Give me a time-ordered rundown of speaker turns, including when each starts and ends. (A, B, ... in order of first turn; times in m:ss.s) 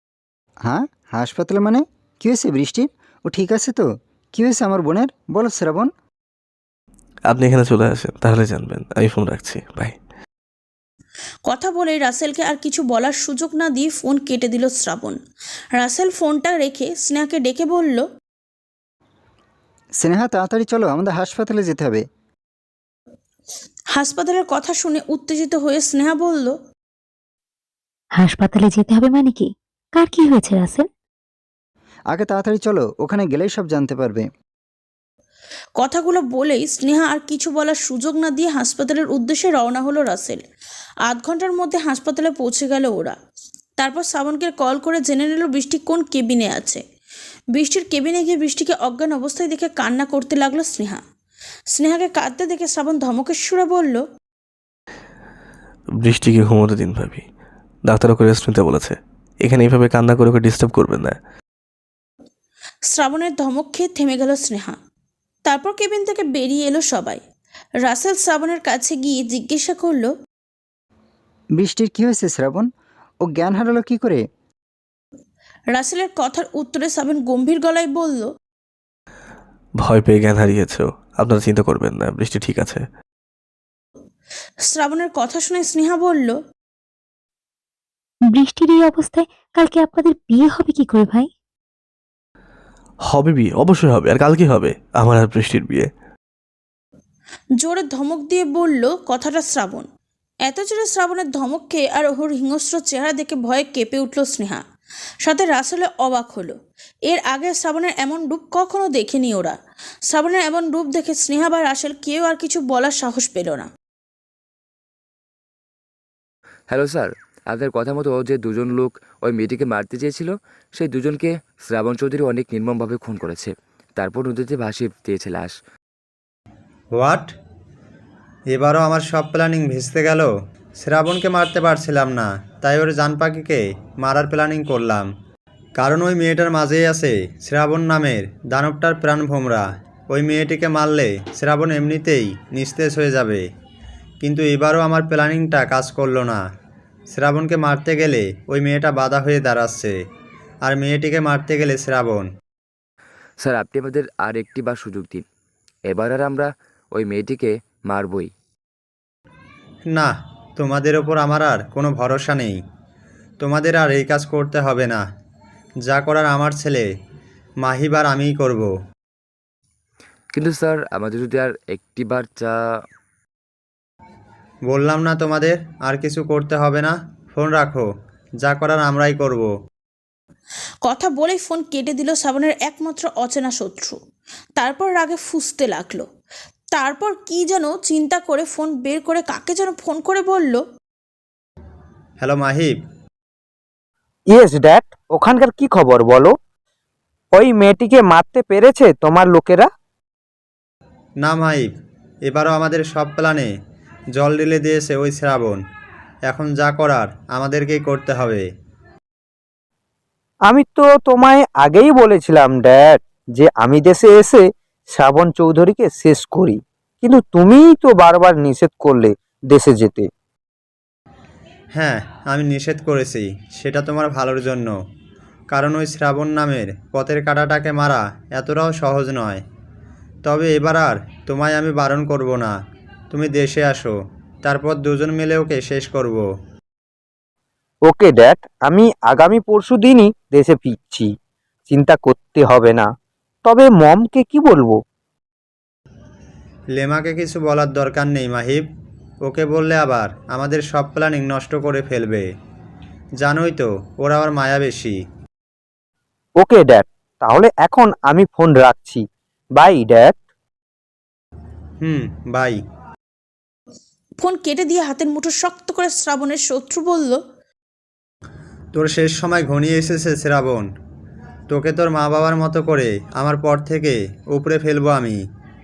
0:00.7-0:05.9 A
0:07.3-0:10.0 B
0:11.5-0:15.2 C
0:15.8-0:18.1 C
0:20.0-0:22.0 A
0:24.0-0:26.6 C
0:28.2-0:30.9 D
0:32.1-0:34.3 A
0:35.8-0:40.4 C
0:41.1-0:43.2 C
0:43.8-0:46.8 C
0:47.6-0:51.0 C
0:51.7-0:54.0 C
0:56.0-0:57.3 B
0:57.9-1:01.2 B
1:02.9-1:04.8 C
1:05.5-1:07.2 C
1:07.8-1:10.1 C
1:11.6-1:12.7 A
1:13.2-1:14.2 A
1:15.7-1:18.3 C
1:19.8-1:22.8 B
1:24.7-1:26.4 C
1:28.3-1:31.3 D
1:33.1-1:35.9 B
1:37.6-1:39.9 C
1:40.5-1:44.6 C
1:45.2-1:46.6 C
1:47.1-1:49.6 C
1:50.1-1:53.7 C
1:56.7-2:05.6 E
2:06.9-2:07.4 F
2:08.5-2:15.1 F
2:15.8-2:23.4 F
2:24.2-2:26.4 F
2:27.1-2:30.0 F
2:30.6-2:32.3 F
2:33.4-2:35.2 E
2:35.9-2:38.3 E
2:39.9-2:42.6 F
2:43.4-2:45.0 F
2:45.8-2:46.9 F
2:47.6-2:48.7 F
2:50.4-2:52.5 E
2:54.7-2:57.9 F
2:58.4-2:59.5 F
3:00.8-3:04.0 C
3:04.6-3:06.0 C
3:06.7-3:10.6 C
3:12.2-3:12.8 F
3:14.3-3:16.3 G
3:17.4-3:19.7 G
3:21.2-3:21.7 F
3:22.3-3:23.5 F
3:24.2-3:25.6 F
3:26.3-3:28.5 F
3:30.5-3:34.4 G
3:34.9-3:40.0 G
3:41.8-3:44.8 F
3:45.5-3:49.4 F
3:50.2-3:52.5 F
3:53.1-3:56.3 F
3:57.9-4:01.1 G
4:01.7-4:02.8 G
4:03.5-4:04.8 G
4:06.8-4:08.6 F
4:09.2-4:12.3 F
4:13.2-4:15.0 F
4:16.4-4:19.0 G
4:19.6-4:20.2 G
4:21.8-4:22.6 F
4:24.2-4:27.2 C
4:28.8-4:30.7 F
4:31.5-4:35.2 F